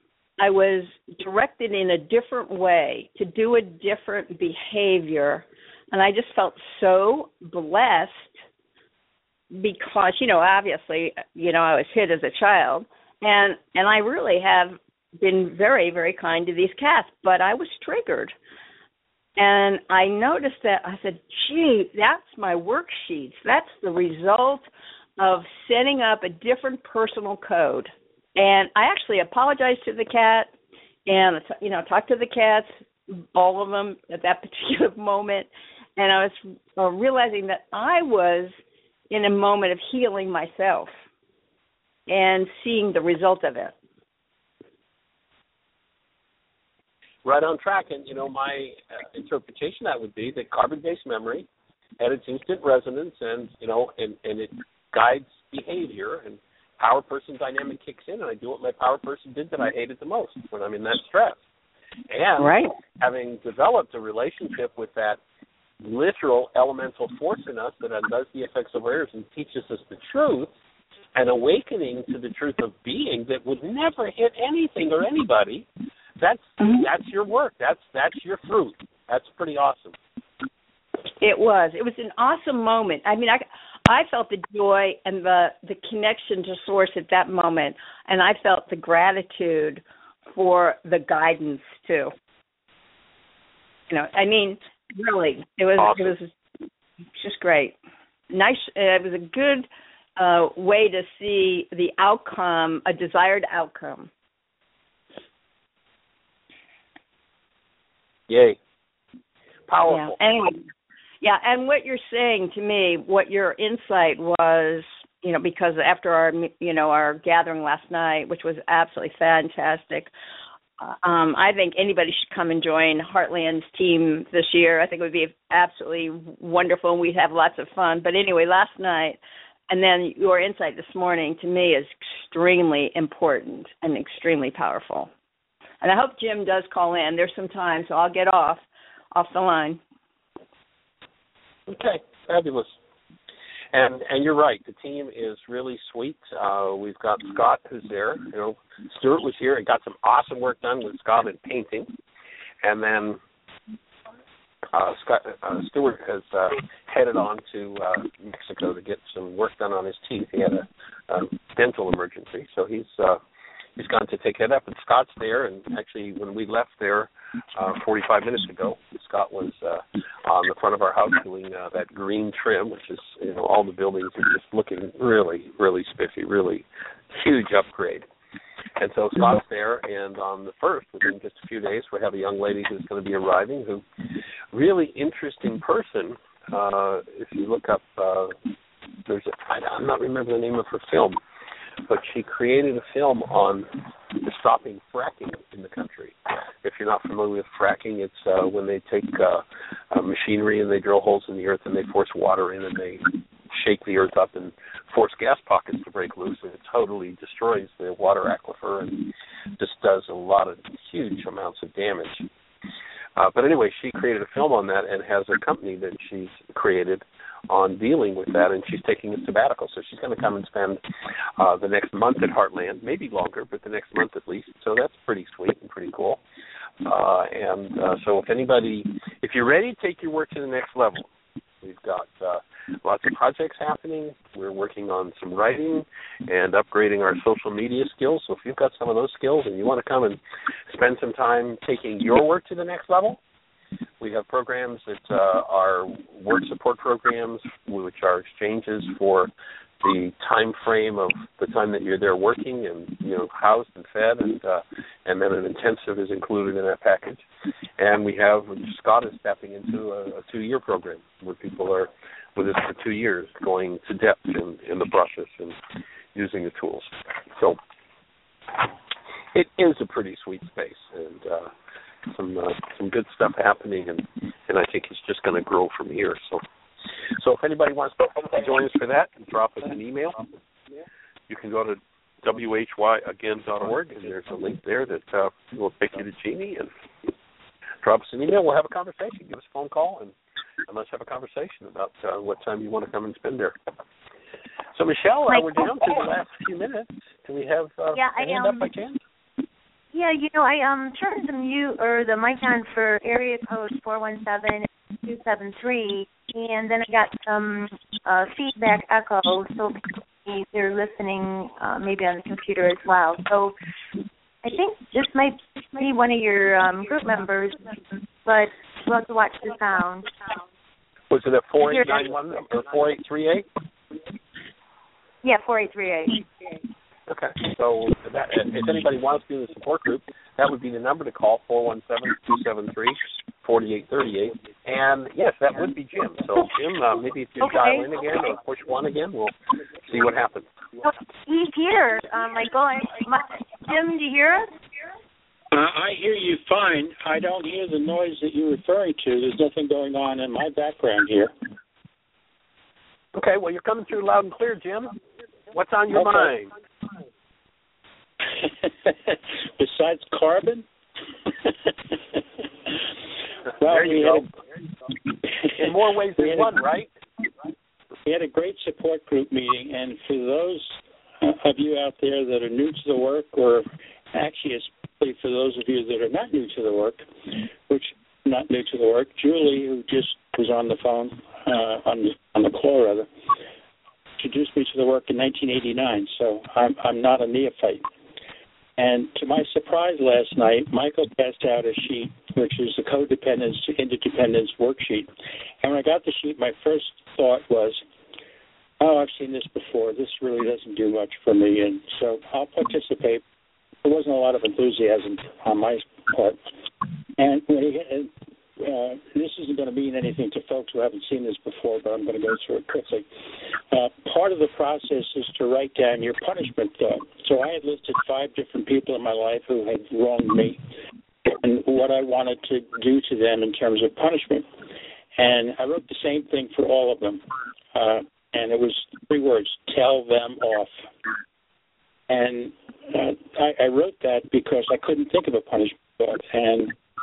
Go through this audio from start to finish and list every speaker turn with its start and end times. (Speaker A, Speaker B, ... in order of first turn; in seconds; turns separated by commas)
Speaker A: 0.4-8.3, Speaker A: 9.5-18.3, Speaker A: 19.4-30.5, Speaker A: 31.1-38.5, Speaker A: 39.1-40.9, Speaker A: 42.1-43.7, Speaker B: 47.2-51.5, Speaker B: 52.0-61.4, Speaker B: 62.1-65.2, Speaker A: 62.4-62.7, Speaker B: 65.8-70.5, Speaker B: 71.2-80.0, Speaker A: 76.6-76.9, Speaker A: 81.2-92.1, Speaker A: 93.9-96.3, Speaker B: 95.8-96.1, Speaker A: 97.2-97.8, Speaker A: 98.3-104.1, Speaker B: 108.3-108.6, Speaker B: 109.7-110.2, Speaker A: 109.9-110.7, Speaker A: 111.2-120.1, Speaker A: 120.8-135.1, Speaker A: 135.8-139.8, Speaker B: 141.7-142.7, Speaker B: 143.7-151.9, Speaker B: 152.6-153.2, Speaker B: 154.7-163.2, Speaker B: 163.8-178.1, Speaker B: 178.8-183.8, Speaker B: 184.5-188.4, Speaker B: 189.1-191.2, Speaker B: 191.9-212.3, Speaker B: 213.2-220.8, Speaker B: 221.4-226.2, Speaker B: 226.8-231.1, Speaker B: 231.6-243.2, Speaker B: 244.0-257.2, Speaker B: 257.8-265.6, Speaker B: 266.1-267.6, Speaker B: 269.3-271.5, Speaker B: 272.1-276.4, Speaker B: 277.2-280.2, Speaker B: 281.3-286.7, Speaker B: 287.8-290.1, Speaker B: 290.7-293.6, Speaker B: 294.7-299.0, Speaker C: 295.3-295.9, Speaker C: 297.9-298.7, Speaker C: 299.9-313.6, Speaker C: 314.4-320.4, Speaker B: 321.1-323.5, Speaker C: 321.7-322.0, Speaker C: 325.2-326.6, Speaker B: 327.1-340.5, Speaker C: 337.4-337.9, Speaker C: 340.8-344.5, Speaker D: 345.5-351.3, Speaker B: 353.1-354.9, Speaker B: 355.5-356.5, Speaker D: 355.9-356.3, Speaker D: 358.4-360.6, Speaker D: 361.3-361.7, Speaker D: 363.6-364.3, Speaker B: 363.6-364.3, Speaker D: 365.5-366.6, Speaker B: 365.6-366.9, Speaker D: 368.1-383.1, Speaker D: 384.2-387.9, Speaker D: 388.8-397.8, Speaker D: 398.8-403.2, Speaker D: 403.8-406.4, Speaker D: 407.2-413.1, Speaker D: 413.7-420.6, Speaker D: 421.3-424.5, Speaker D: 425.2-430.8, Speaker D: 432.1-436.7